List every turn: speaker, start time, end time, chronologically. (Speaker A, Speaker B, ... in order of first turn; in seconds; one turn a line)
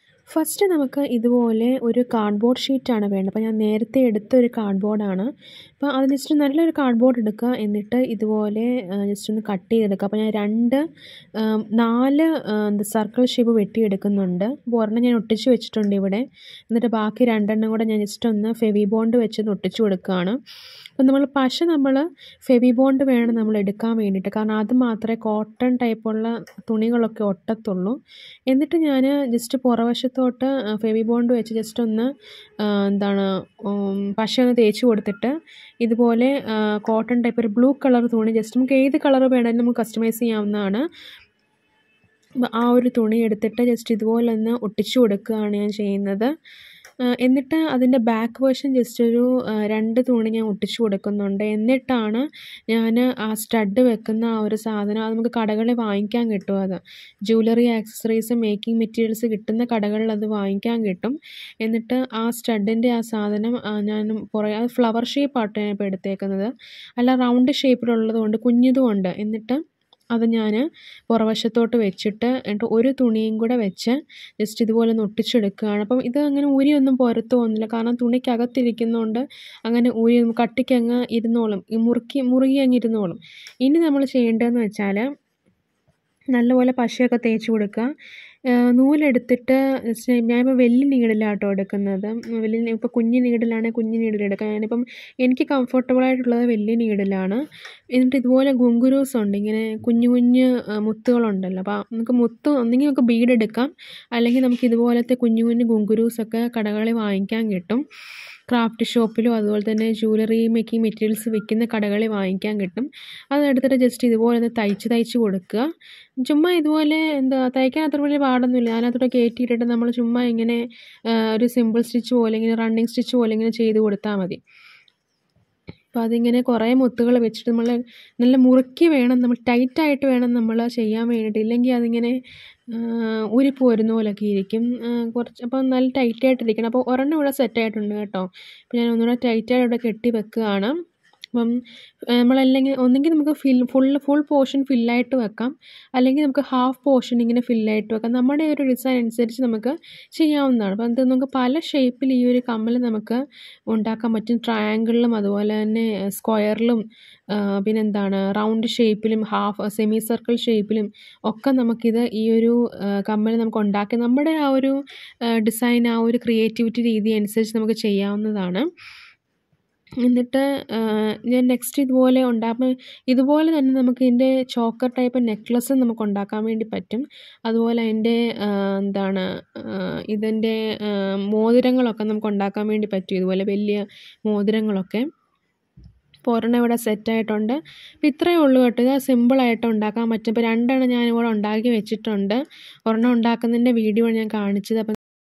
Speaker A: 0.3-10.8
Speaker A: 11.4-20.4
Speaker A: 21.0-28.0
Speaker A: 28.5-32.1
Speaker A: 32.6-40.8
Speaker A: 42.4-46.3
Speaker A: 47.1-69.6
Speaker A: 70.1-85.1
Speaker A: 86.3-87.9
Speaker A: 88.5-107.8
Speaker A: 108.5-115.7
Speaker A: 116.2-124.4
Speaker A: 125.9-132.2
Speaker A: 132.7-140.8
Speaker A: 142.1-168.7
Speaker A: 170.0-185.0
Speaker A: 186.2-194.9